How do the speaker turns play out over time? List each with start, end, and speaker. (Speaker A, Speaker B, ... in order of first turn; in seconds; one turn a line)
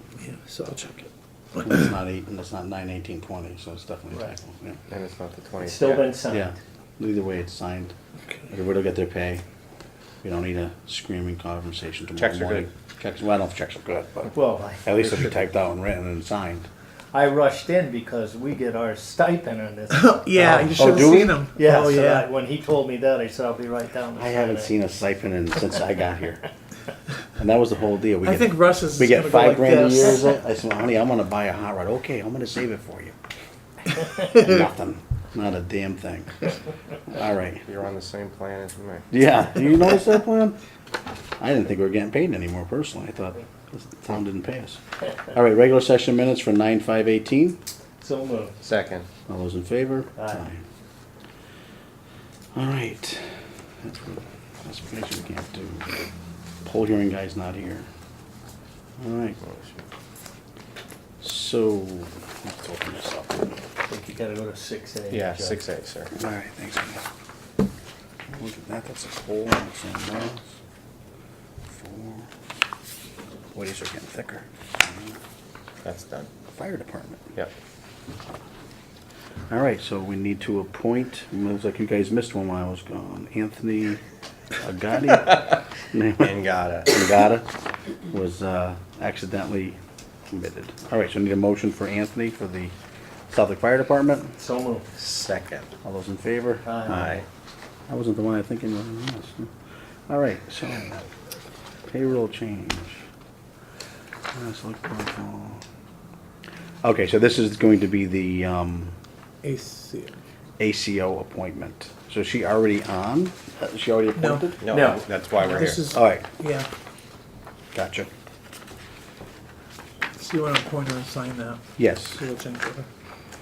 Speaker A: 0.2-1.8
Speaker B: 1.6-4.8
Speaker C: 4.9-6.2
Speaker D: 5.6-6.5
Speaker B: 6.3-7.9
Speaker B: 8.5-9.4
Speaker B: 10.2-16.7
Speaker C: 12.2-12.7
Speaker D: 14.3-14.9
Speaker C: 15.1-15.3
Speaker D: 17.1-24.7
Speaker A: 19.9-22.3
Speaker B: 20.4-21.4
Speaker B: 24.1-26.4
Speaker B: 27.4-33.1
Speaker A: 28.2-30.3
Speaker B: 34.2-36.5
Speaker B: 37.1-37.6
Speaker C: 37.6-39.0
Speaker B: 39.1-40.6
Speaker B: 41.4-47.6
Speaker D: 48.0-48.6
Speaker C: 48.6-49.0
Speaker B: 49.3-50.6
Speaker D: 50.2-50.5
Speaker B: 52.5-55.9
Speaker B: 56.6-57.9
Speaker B: 59.0-59.4
Speaker C: 59.4-59.7
Speaker B: 61.2-63.5
Speaker D: 63.9-65.6
Speaker C: 65.1-66.1
Speaker B: 66.2-67.0
Speaker B: 68.3-70.4
Speaker B: 71.7-72.3
Speaker B: 73.5-75.1
Speaker C: 75.8-76.3
Speaker B: 76.5-77.3
Speaker B: 79.5-84.0
Speaker B: 84.6-87.5
Speaker C: 86.2-86.9
Speaker B: 88.1-89.8
Speaker B: 90.3-92.7
Speaker B: 93.3-94.3
Speaker D: 94.4-94.9
Speaker C: 95.0-95.7
Speaker B: 95.8-97.2
Speaker D: 96.6-97.1
Speaker C: 96.9-97.2
Speaker B: 97.9-99.5
Speaker B: 100.1-101.1
Speaker B: 101.9-103.0
Speaker B: 104.3-105.6
Speaker B: 106.8-108.9
Speaker A: 109.4-110.2
Speaker B: 110.6-114.6
Speaker A: 114.2-114.5
Speaker C: 114.6-115.9
Speaker D: 114.7-115.1
Speaker A: 115.3-116.7
Speaker B: 115.9-116.2
Speaker B: 117.7-118.1
Speaker A: 120.1-121.6
Speaker B: 121.8-122.2
Speaker A: 122.1-122.9